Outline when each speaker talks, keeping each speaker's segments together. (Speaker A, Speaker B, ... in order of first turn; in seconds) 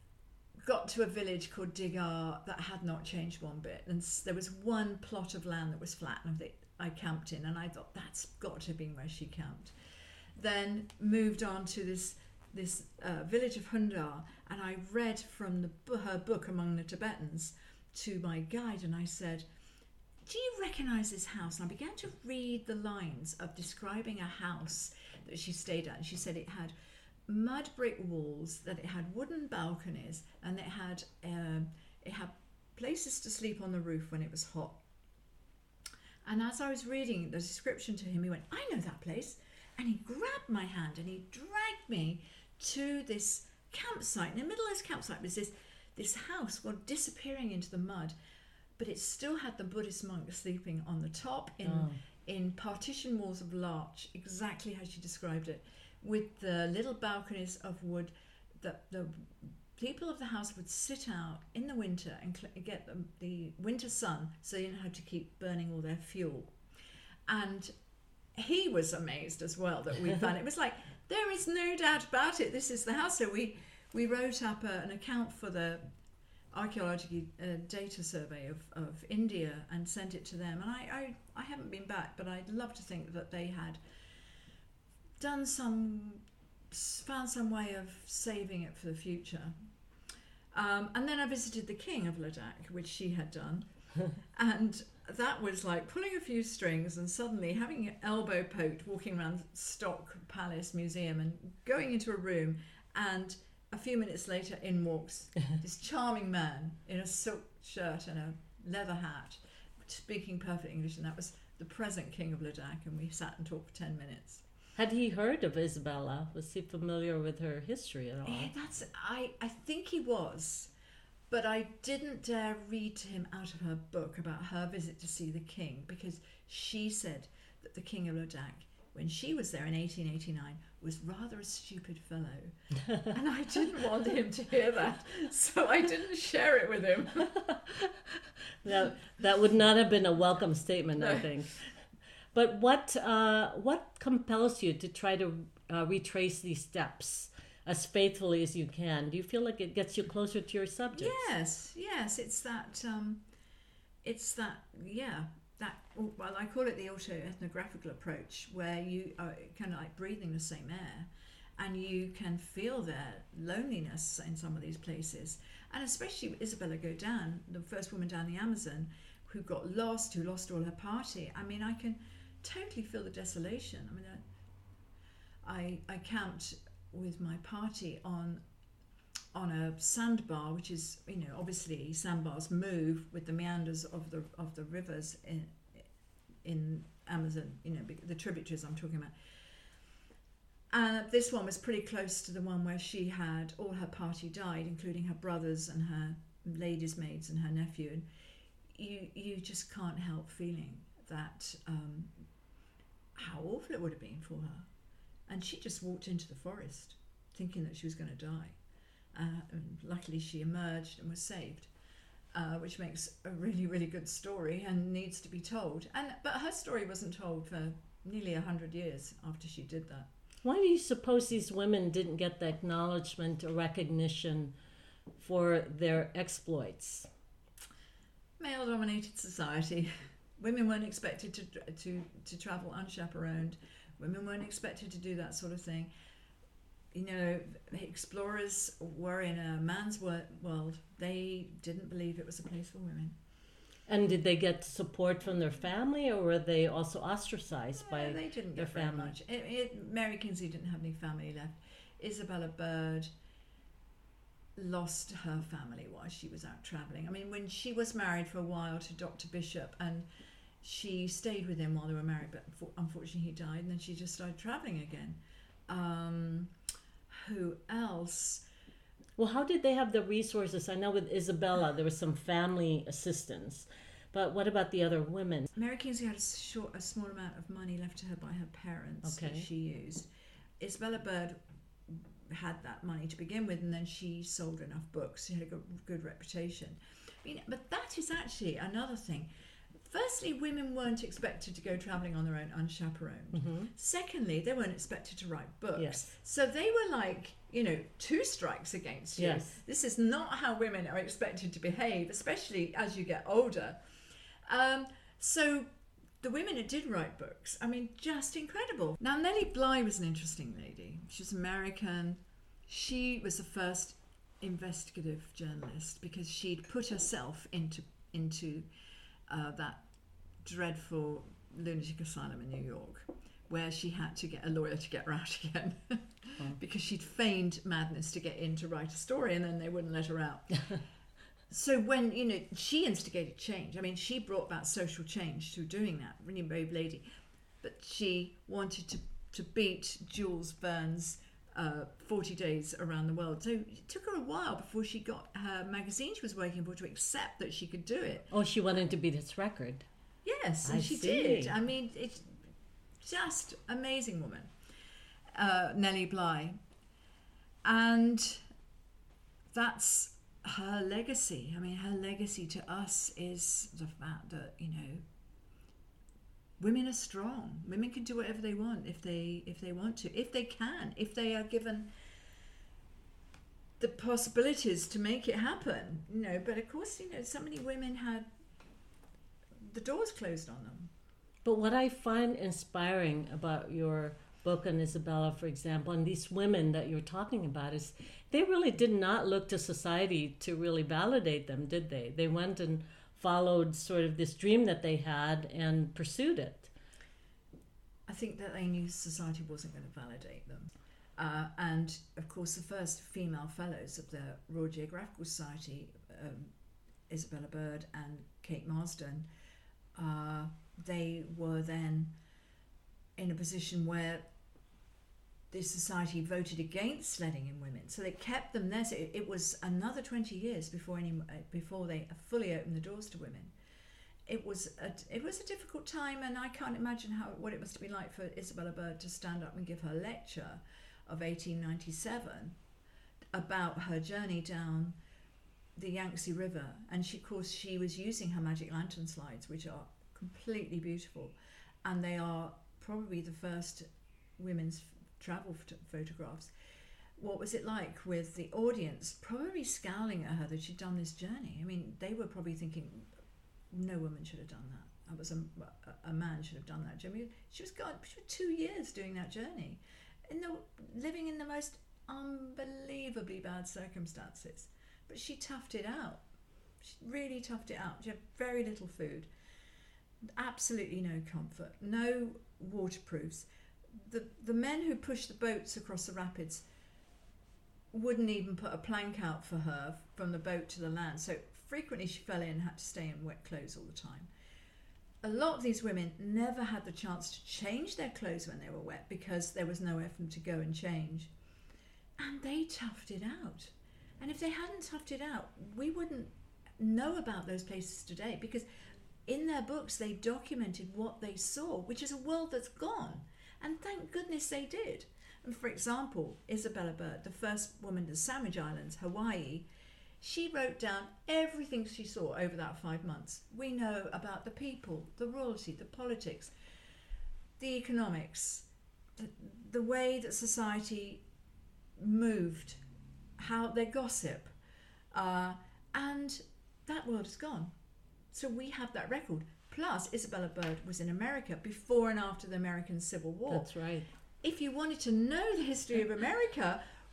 Speaker A: 0.6-9.7, 10.3-19.5, 20.2-26.7, 27.3-34.8, 36.3-48.1, 48.8-66.5, 67.3-67.7, 68.3-75.9, 76.5-83.8, 85.2-89.6, 90.5-114.4, 118.2-120.7, 121.3-137.4, 141.0-141.3, 150.9-153.2, 154.0-174.2, 175.4-178.4, 179.3-185.9, 186.4-189.1, 190.7-198.1, 198.7-202.1, 203.2-204.7, 205.3-208.6, 209.1-211.7, 212.3-220.1, 228.4-235.9, 236.9-243.2, 247.8-253.1, 254.6-260.1, 260.6-266.5, 267.1-268.4, 275.5-280.1, 280.6-289.3, 289.8-303.8, 304.5-318.7, 319.3-330.8, 331.5-337.1, 337.6-348.3, 350.2-352.3, 353.0-354.5, 355.3-356.6, 357.6-358.5, 359.5-365.0, 366.6-371.9, 373.8-378.3, 379.6-380.9, 398.1-406.5, 407.1-409.3, 409.9-412.1, 413.2-414.3, 415.5-423.5, 424.3-432.6, 433.3-435.0, 435.8-446.5, 447.2-453.1, 453.7-466.2, 466.8-469.3, 470.4-476.6, 477.9-484.3, 485.2-491.3, 492.2-498.7, 499.3-509.7, 510.2-516.5, 517.6-521.2, 522.0-522.8, 523.4-524.5, 525.1-527.7, 528.3-533.7, 534.4-536.9
Speaker B: 51.6-52.0, 114.8-118.5, 138.6-141.6, 142.3-151.3, 220.4-224.5, 225.2-227.1, 243.9-249.2, 269.2-275.5, 279.0-279.5, 293.3-293.7, 295.8-296.1, 299.2-299.6, 348.3-349.9, 350.6-351.6, 381.4-396.7, 533.5-534.1